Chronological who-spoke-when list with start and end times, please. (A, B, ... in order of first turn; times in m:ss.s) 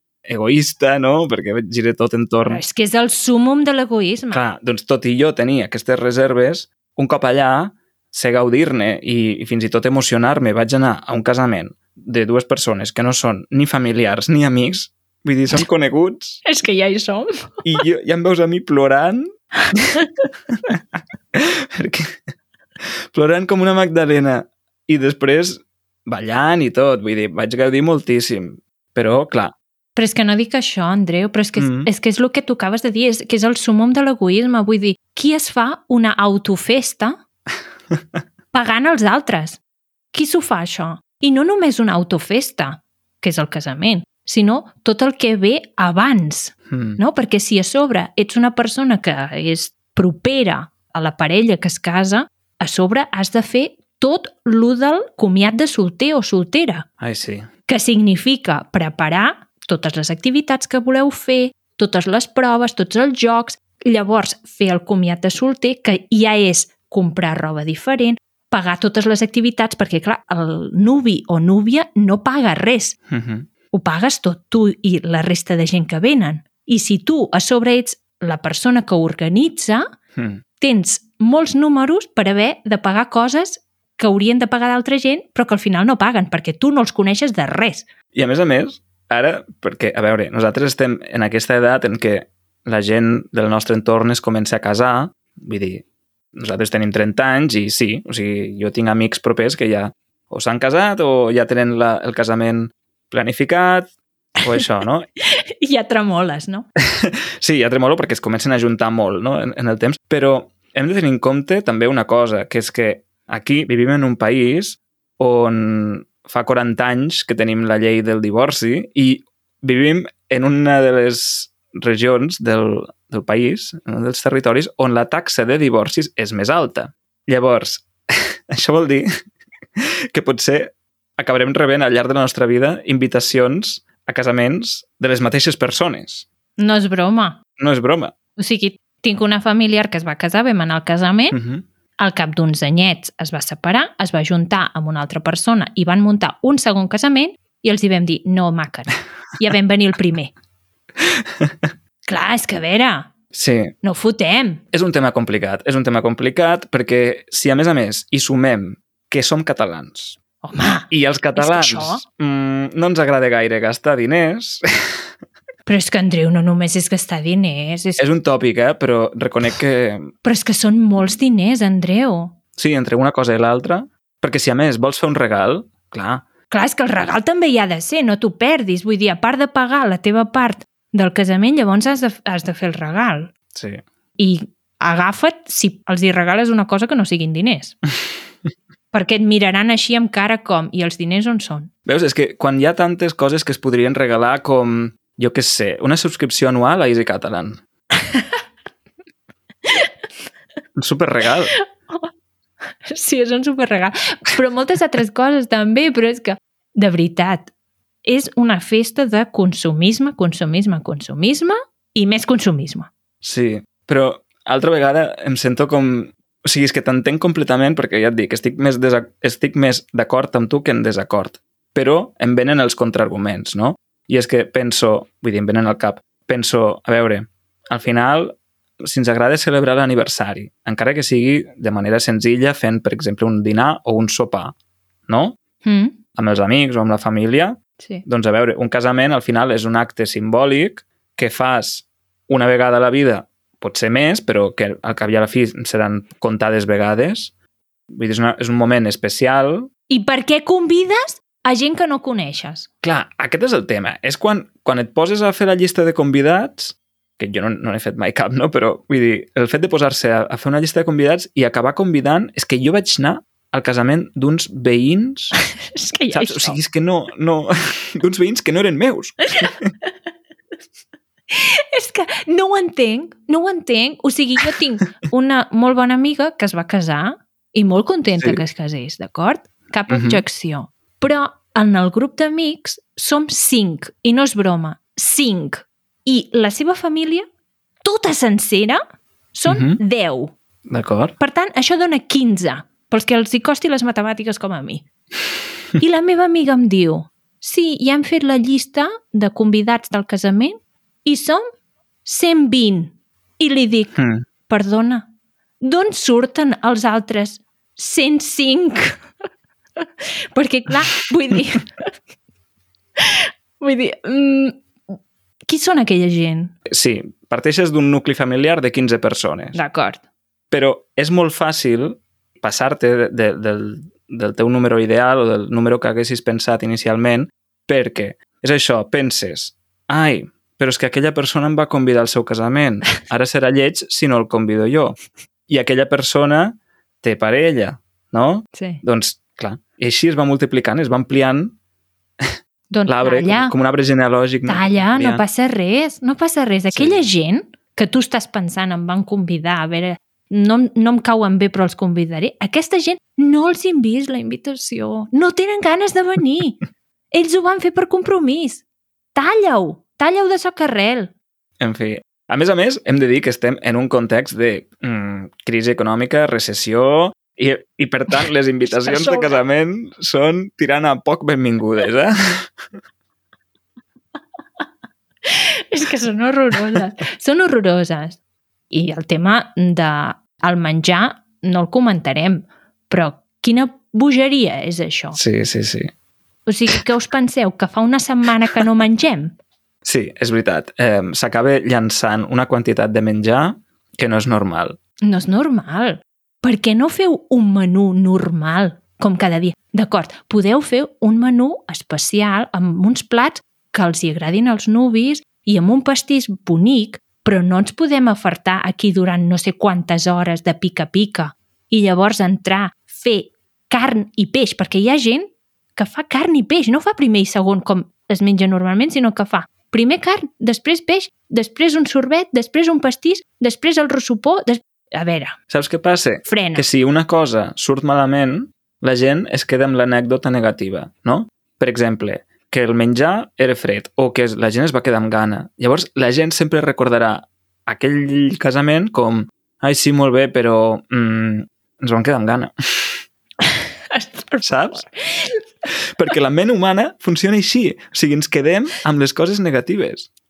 0:00.2-0:02.6 A
0:02.5-0:04.4 B
0:04.3-0:16.4 A
0:16.4-0:17.5 B
0:17.6-0:19.3 A
0:21.3-0:22.2 A
0:23.1-0:29.5 A
0:30.0-0:37.2 B
0:31.6-0:31.9 A
0:38.5-0:39.6 B
0:40.1-0:56.8 B
0:46.7-0:47.0 A
0:57.0-0:57.5 A
0:57.7-1:13.0 B
1:13.1-1:13.5 A
1:13.7-1:19.9 B
1:20.2-1:20.4 A
1:20.6-1:27.8 B
1:28.1-1:45.1 A
1:45.2-1:46.7 B
1:46.9-2:09.1 A
2:09.8-2:16.2 A
2:16.6-2:17.4 B
2:17.6-2:18.1 A
2:18.4-2:21.4 B
2:21.3-2:21.6 A
2:22.0-2:30.3 B
2:32.1-2:33.1 B
2:33.3-2:33.7 A
2:33.8-2:34.6 B
2:34.7-2:40.2 A
2:40.4-2:42.0 B
2:40.9-2:45.0 A
2:45.6-2:48.0 B
2:48.0-2:50.1 A
2:50.2-2:52.3 B
2:52.6-2:56.2 A
2:56.5-3:03.3 B
3:03.5-3:03.8 A
3:04.2-3:07.8 B
3:08.9-3:11.7 B
3:11.8-3:17.6 A
3:18.0-3:18.3 B
3:20.8-3:21.5 A
3:21.6-3:22.1 B
3:22.8-3:27.5 B
3:28.0-3:32.9 B
3:33.2-3:54.5 A
3:55.1-3:55.4 A
3:55.6-3:55.9 B
3:56.1-4:07.3 A
3:57.8-3:58.0 B
4:07.9-4:09.7 A
4:09.9-4:12.7 B
4:12.8-4:25.4 A
4:25.7-4:26.6 B
4:26.1-4:29.7 A
4:31.3-4:47.3 B
4:39.9-4:40.2 A
4:47.8-4:48.8 B
4:49.3-4:50.3 B
4:49.5-4:49.8 A
4:50.7-4:51.1 A
4:51.2-4:54.8 B
4:55.8-5:01.4 B
5:02.0-5:05.1 B
5:04.0-5:04.2 A
5:05.6-5:09.0 B
5:09.8-5:11.9 B
5:13.0-5:14.6 B
5:15.4-5:16.5 B
5:16.7-5:19.6 A
5:19.5-5:20.0 B
5:20.5-5:41.5 A
5:38.5-5:38.8 B
5:42.2-5:45.2 A
5:42.7-5:43.5 B
5:44.5-5:56.6 B
5:46.7-5:47.0 A
5:57.1-5:58.6 B
5:59.1-6:01.1 B
6:01.6-6:12.5 A
6:08.7-6:09.3 B
6:15.2-6:18.2 B
6:18.7-6:25.2 B
6:25.2-6:25.9 A
6:26.5-6:29.4 B
6:29.8-6:34.8 A
6:35.0-7:05.4 B
7:05.5-7:23.0 A
7:06.2-7:06.6 B
7:23.9-7:25.4 B
7:24.4-7:24.8 A
7:25.9-7:30.1 A